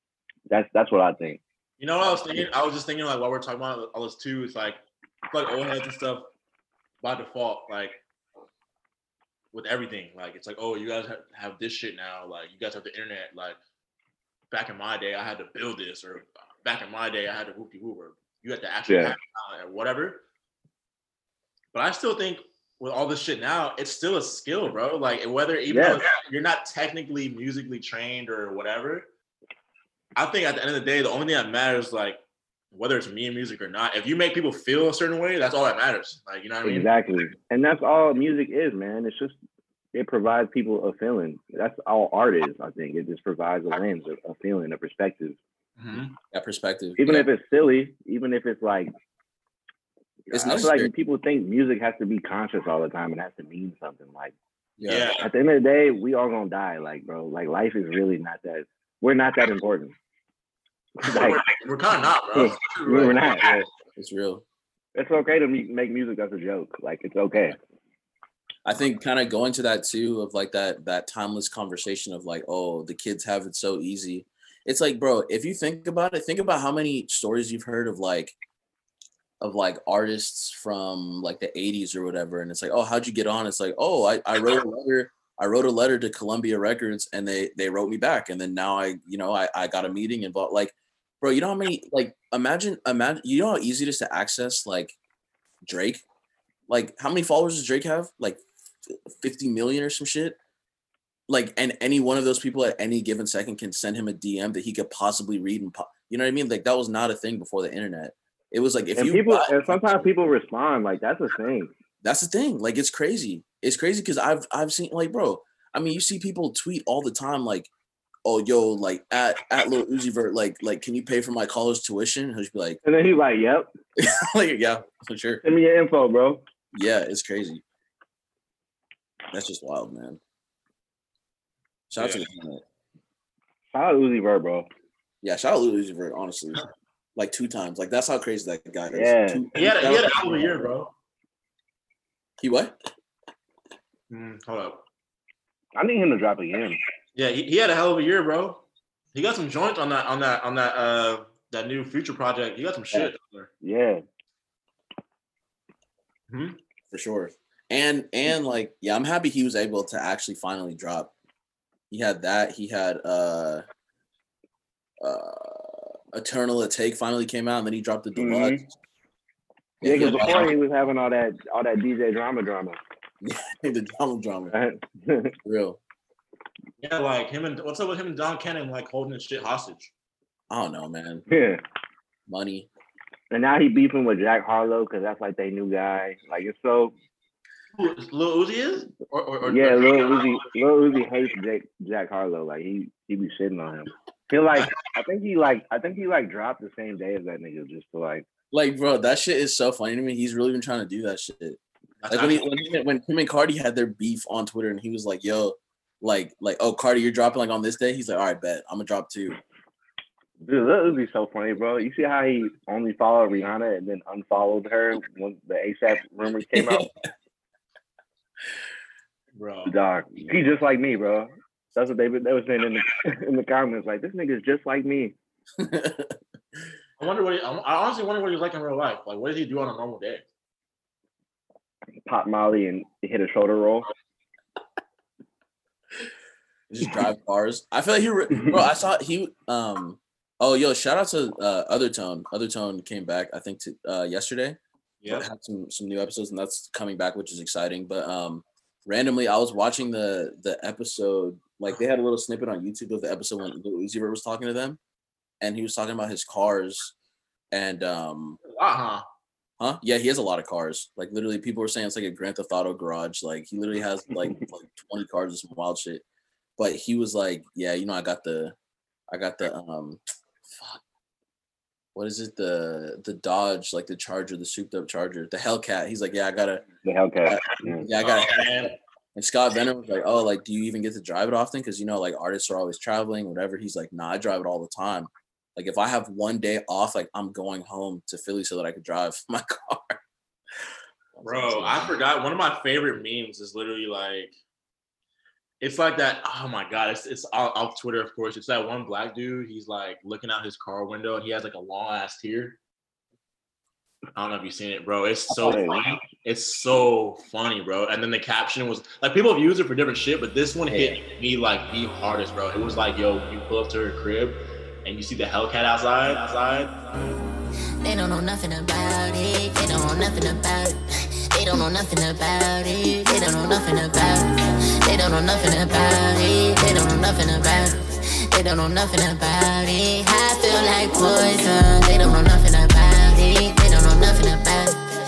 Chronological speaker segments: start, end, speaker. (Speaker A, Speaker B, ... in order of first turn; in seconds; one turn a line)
Speaker A: 0.5-1.4
Speaker B: 1.8-6.3
Speaker B: 7.0-8.0
Speaker B: 9.5-13.6
Speaker B: 14.5-20.2
Speaker A: 18.9-19.1
Speaker B: 21.7-29.1
Speaker A: 25.7-26.0
Speaker B: 30.1-32.2
Speaker B: 32.7-36.9
Speaker A: 36.6-39.4
Speaker A: 39.9-45.4
Speaker B: 45.8-46.1
Speaker C: 46.2-47.3
Speaker A: 47.0-48.9
Speaker A: 50.3-54.3
Speaker C: 50.3-50.9
Speaker C: 54.8-55.1
Speaker B: 54.9-55.2
Speaker A: 55.2-59.9
Speaker A: 61.0-61.4
Speaker B: 61.0-63.4
Speaker A: 62.3-63.6
Speaker C: 64.0-64.4
Speaker A: 64.9-67.5
Speaker C: 68.6-78.3
Speaker C: 79.4-94.9
Speaker C: 95.6-96.0
Speaker C: 96.7-100.4
Speaker C: 101.3-110.0
Speaker A: 109.0-111.7
Speaker C: 112.0-117.7
Speaker C: 118.2-122.8
Speaker A: 122.8-123.7
Speaker C: 124.0-125.4
Speaker A: 125.4-126.4
Speaker C: 126.7-127.6
Speaker C: 129.3-130.2
Speaker C: 131.9-132.6
Speaker B: 131.9-132.2
Speaker A: 133.7-134.7
Speaker C: 135.2-136.6
Speaker C: 137.2-140.4
Speaker A: 138.9-139.4
Speaker B: 139.5-140.9
Speaker C: 142.4-142.8
Speaker B: 144.1-144.8
Speaker A: 145.7-146.8
Speaker B: 147.1-148.6
Speaker B: 149.1-153.5
Speaker A: 153.6-154.0
Speaker B: 156.3-156.6
Speaker C: 156.9-161.1
Speaker C: 161.9-163.6
Speaker C: 165.0-168.7
Speaker A: 168.2-168.6
Speaker C: 169.8-170.5
Speaker A: 169.8-172.8
Speaker B: 169.9-170.5
Speaker C: 173.2-174.5
Speaker A: 174.5-175.3
Speaker C: 175.4-175.8
Speaker B: 176.8-179.9
Speaker C: 180.5-181.2
Speaker A: 181.3-181.6
Speaker C: 182.3-182.7
Speaker A: 183.3-186.9
Speaker B: 187.7-190.3
Speaker A: 189.4-198.2
Speaker C: 198.5-201.6
Speaker B: 202.0-202.4
Speaker C: 202.1-209.4
Speaker A: 210.4-216.8
Speaker C: 216.5-216.9
Speaker B: 219.3-219.7
Speaker A: 219.7-225.1
Speaker C: 225.6-226.2
Speaker B: 227.0-230.2
Speaker A: 232.1-233.9
Speaker C: 236.7-254.8
Speaker B: 245.0-245.3
Speaker C: 255.4-256.9
Speaker C: 257.5-258.4
Speaker B: 258.5-259.0
Speaker C: 259.6-266.0
Speaker A: 264.1-264.4
Speaker C: 266.6-268.5
Speaker C: 269.1-270.0
Speaker C: 270.5-270.8
Speaker C: 271.9-276.6
Speaker A: 276.8-277.9
Speaker C: 277.3-290.0
Speaker B: 278.0-278.7
Speaker C: 291.1-291.9
Speaker B: 291.2-294.3
Speaker B: 295.6-302.6
Speaker B: 304.1-316.8
Speaker A: 305.3-305.8
Speaker C: 310.7-311.0
Speaker D: 317.8-320.8
Speaker D: 321.3-334.8